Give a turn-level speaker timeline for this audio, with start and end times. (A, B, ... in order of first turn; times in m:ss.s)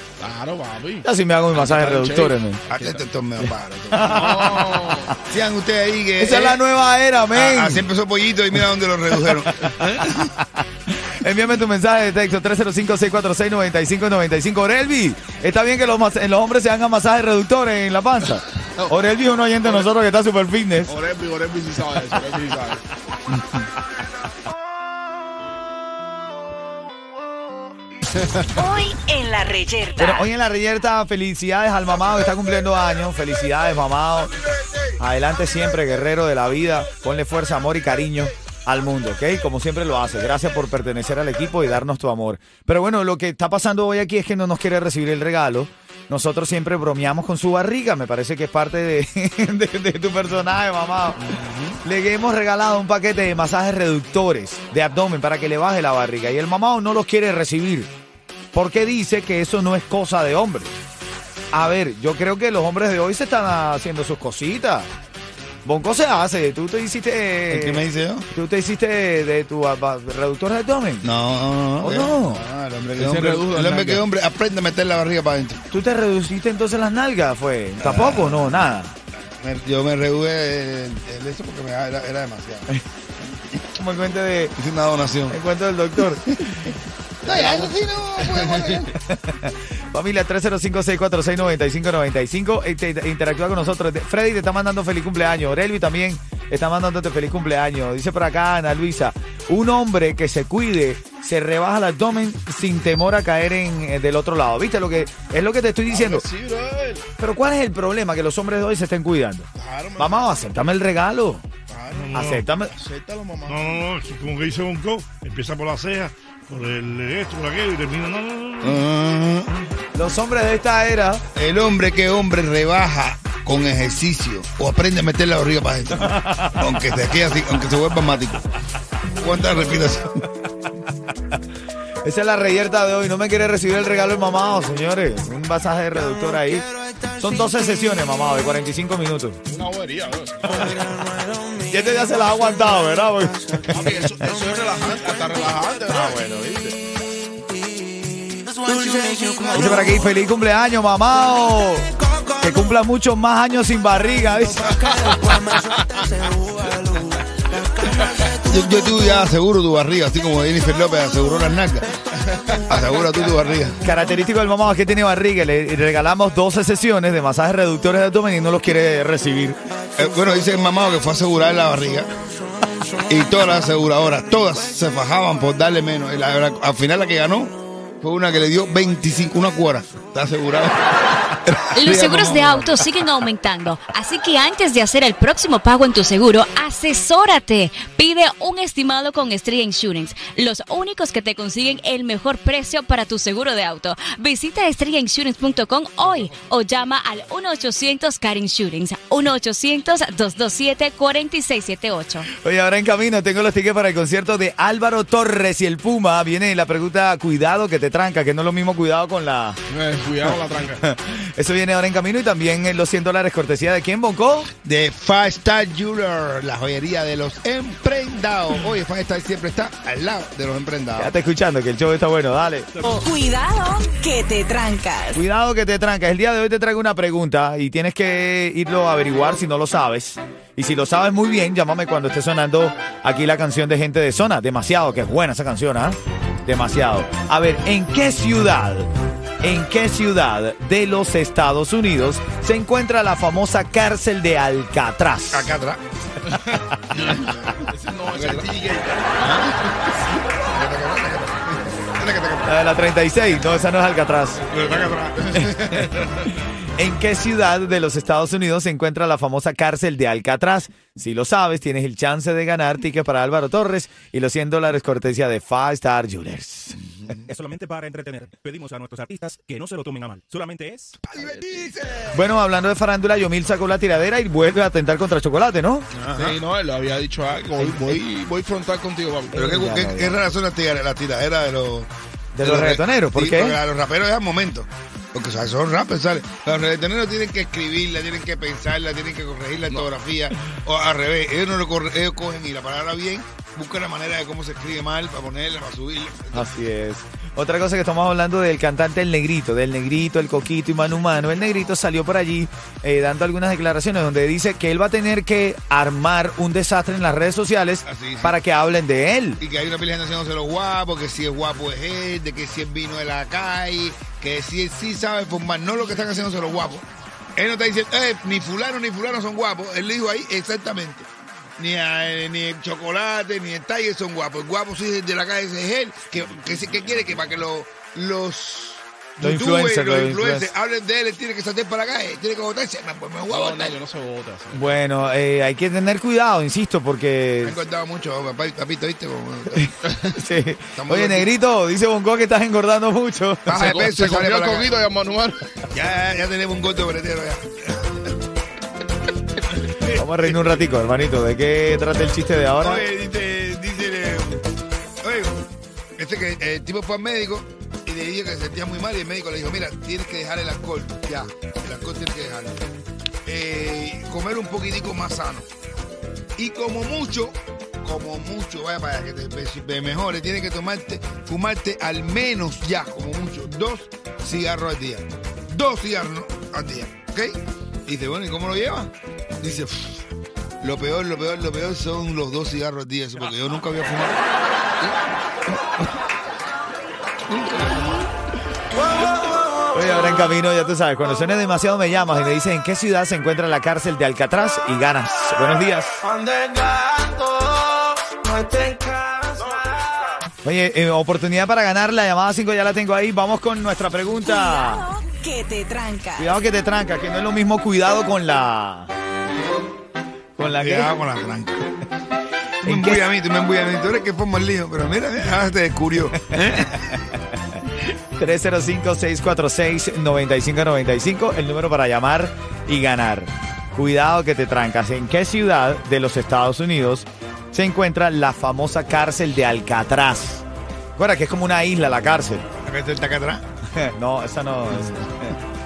0:00.2-0:03.0 A
0:01.0-0:02.6 B
0:02.7-0:04.2 C
0:03.4-0:05.1 B
0:04.1-0:05.1 A
0:05.2-0:06.6 C
0:06.2-0:07.8 B
0:07.3-0:10.2 C
0:09.6-0:20.9 B
0:20.9-0:22.8 A
0:29.6-0:29.9 D
0:30.0-0:34.3 B
0:35.0-0:57.9 B
0:58.5-1:00.7 B
1:01.5-1:04.9 B
1:05.6-1:11.1 B
1:07.5-1:08.3 C
1:11.0-1:15.6 C
1:11.8-1:12.4 B
1:13.0-1:14.0 A
1:15.7-1:19.0 B
1:17.8-1:18.5 C
1:19.2-1:22.7 C
1:23.7-1:24.5 B
1:24.6-1:25.3 C
1:25.3-1:26.7 B
1:27.2-1:27.7 B
1:27.2-1:28.9 C
1:28.9-1:46.2 B
1:45.9-1:47.0 A
1:47.2-1:51.4 B
1:49.6-1:50.3 A
1:51.7-1:52.0 A
1:51.9-1:52.4 E
1:52.1-1:52.7 B
1:52.6-1:53.7 A
1:53.4-1:58.8 E
1:58.6-1:59.5 C
1:59.9-2:01.2 B
2:01.3-2:08.4 C
2:06.0-2:06.6 B
2:09.2-2:10.2 C
2:12.0-2:16.7 B
2:17.2-2:19.4 B
2:19.5-2:20.8 A
2:21.7-2:24.1 B
2:23.7-2:26.2 A
2:25.9-2:26.7 B
2:29.5-2:31.8 B
2:32.4-2:35.1 B
2:38.4-2:41.9 C
2:42.5-2:43.8 C
2:43.8-2:49.6 B
2:50.0-2:52.1 C
2:53.1-3:00.8 C
3:01.4-3:02.9 C
3:01.8-3:22.2 F
3:08.8-3:10.0 G
3:11.5-3:12.0 G
3:16.2-3:16.6 G
3:22.4-3:29.6 B
3:29.7-3:30.8 A
3:30.3-3:34.5 B
3:34.6-3:41.1 C
3:41.0-3:42.7 B
3:42.8-3:45.2 D
3:45.1-3:58.9 B
3:59.4-4:05.5 B
4:05.3-4:05.8 C
4:06.9-4:08.6 C
4:07.6-4:09.4 A
4:09.1-4:12.4 C
4:12.4-4:14.5 B
4:14.5-4:15.9 C
4:15.3-4:16.0 B
4:16.8-4:26.8 B
4:27.2-4:31.0 G
4:31.1-4:32.1 C
4:32.1-4:35.9 B
4:35.9-4:36.4 C
4:36.2-4:39.3 A
4:37.6-4:38.0 B
4:39.3-4:40.2 B
4:39.3-4:41.9 C
4:42.3-4:43.6 B
4:42.4-4:56.5 C
4:56.3-5:09.4 B
5:07.8-5:08.4 C
5:09.4-5:16.8 C
5:17.4-5:33.8 C
5:29.2-5:30.5 B
5:33.3-5:34.7 A
5:34.5-5:37.6 B
5:37.4-5:40.1 C
5:40.1-5:43.7 B
5:40.8-5:41.3 C
5:43.4-5:44.8 C
5:43.6-5:45.4 A
5:45.7-5:48.1 C
5:49.8-5:52.8 B
5:52.6-5:54.4 C
5:55.0-5:55.4 C
5:56.0-6:02.6 C
6:03.2-6:05.5 C
6:06.4-6:20.0 C
6:20.6-6:24.2 C
6:27.3-6:28.1 C
6:29.7-6:36.0 B
6:40.4-6:44.8 B
6:44.2-6:46.4 D
6:46.2-6:48.9 B
6:50.4-6:50.9 B
6:50.6-6:51.7 C
6:52.6-6:53.0 B
6:52.6-6:56.8 C
6:58.2-7:12.5 B
7:12.6-7:13.4 C
7:13.7-7:15.4 B